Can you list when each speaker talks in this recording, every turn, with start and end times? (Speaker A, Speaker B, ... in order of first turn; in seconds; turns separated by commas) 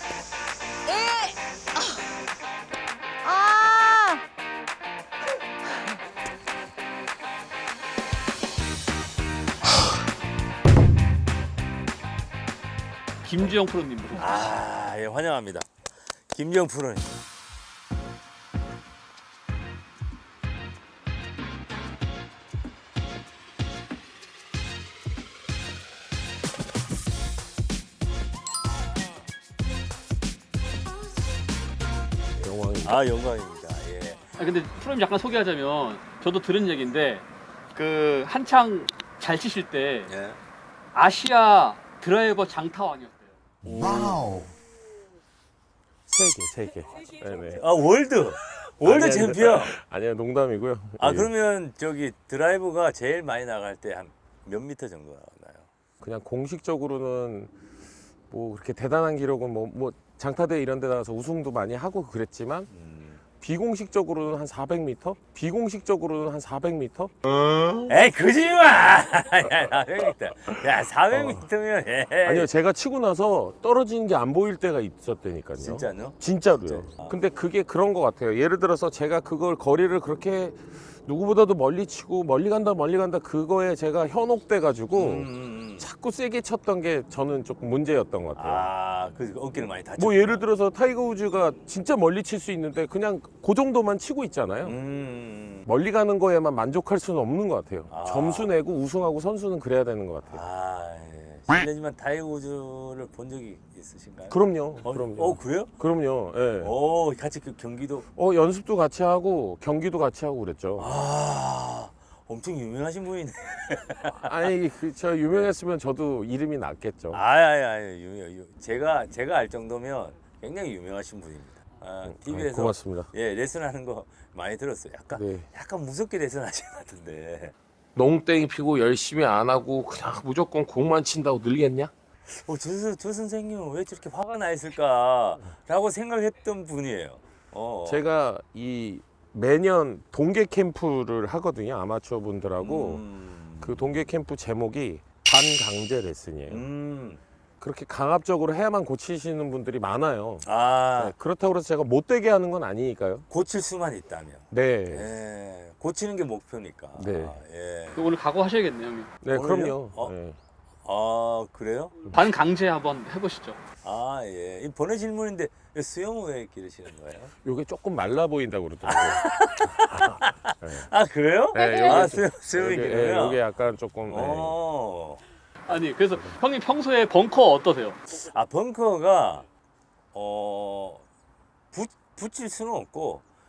Speaker A: 0.9-2.0, Speaker A: 3.2-4.2, Speaker B: 13.2-14.5, Speaker C: 14.2-15.7, Speaker C: 16.3-17.2, Speaker C: 32.4-34.2, Speaker D: 32.4-33.0, Speaker B: 34.4-40.1, Speaker C: 40.1-40.4, Speaker B: 40.9-43.4, Speaker C: 43.7-44.2, Speaker D: 43.8-44.1, Speaker D: 46.1-47.6, Speaker C: 47.6-49.8, Speaker D: 48.8-51.3, Speaker C: 51.0-55.7, Speaker D: 56.0-57.5, Speaker D: 58.3-62.7, Speaker C: 62.7-63.2, Speaker D: 63.4-67.8, Speaker C: 67.8-72.5, Speaker D: 71.1-71.4, Speaker D: 72.2-85.3, Speaker C: 75.6-77.2, Speaker C: 85.0-85.9, Speaker D: 85.8-88.7, Speaker C: 88.4-90.4, Speaker D: 90.0-94.8, Speaker C: 94.6-95.7, Speaker D: 95.7-100.4, Speaker C: 97.9-98.5, Speaker C: 100.3-105.7, Speaker D: 104.3-106.7, Speaker C: 106.6-108.1, Speaker D: 108.2-110.9, Speaker C: 110.8-114.3, Speaker D: 114.2-117.2, Speaker C: 117.1-127.5, Speaker D: 122.1-123.1, Speaker D: 125.2-125.5, Speaker D: 128.0-131.9, Speaker C: 132.3-138.1, Speaker D: 137.9-143.0, Speaker C: 142.6-144.1, Speaker D: 143.6-146.6, Speaker C: 146.5-147.2, Speaker D: 147.6-150.4, Speaker C: 150.4-151.1, Speaker D: 151.0-153.3, Speaker C: 153.3-158.0, Speaker D: 154.5-155.1, Speaker D: 157.0-157.3, Speaker B: 157.9-159.1, Speaker D: 159.2-160.4, Speaker C: 159.3-160.1, Speaker C: 160.8-162.0, Speaker B: 162.1-163.6, Speaker C: 163.8-167.3, Speaker D: 167.4-170.9, Speaker C: 168.8-173.4, Speaker D: 171.5-174.6, Speaker C: 174.1-175.2, Speaker B: 175.7-178.0, Speaker C: 178.2-179.5, Speaker C: 180.1-181.0, Speaker C: 181.7-183.2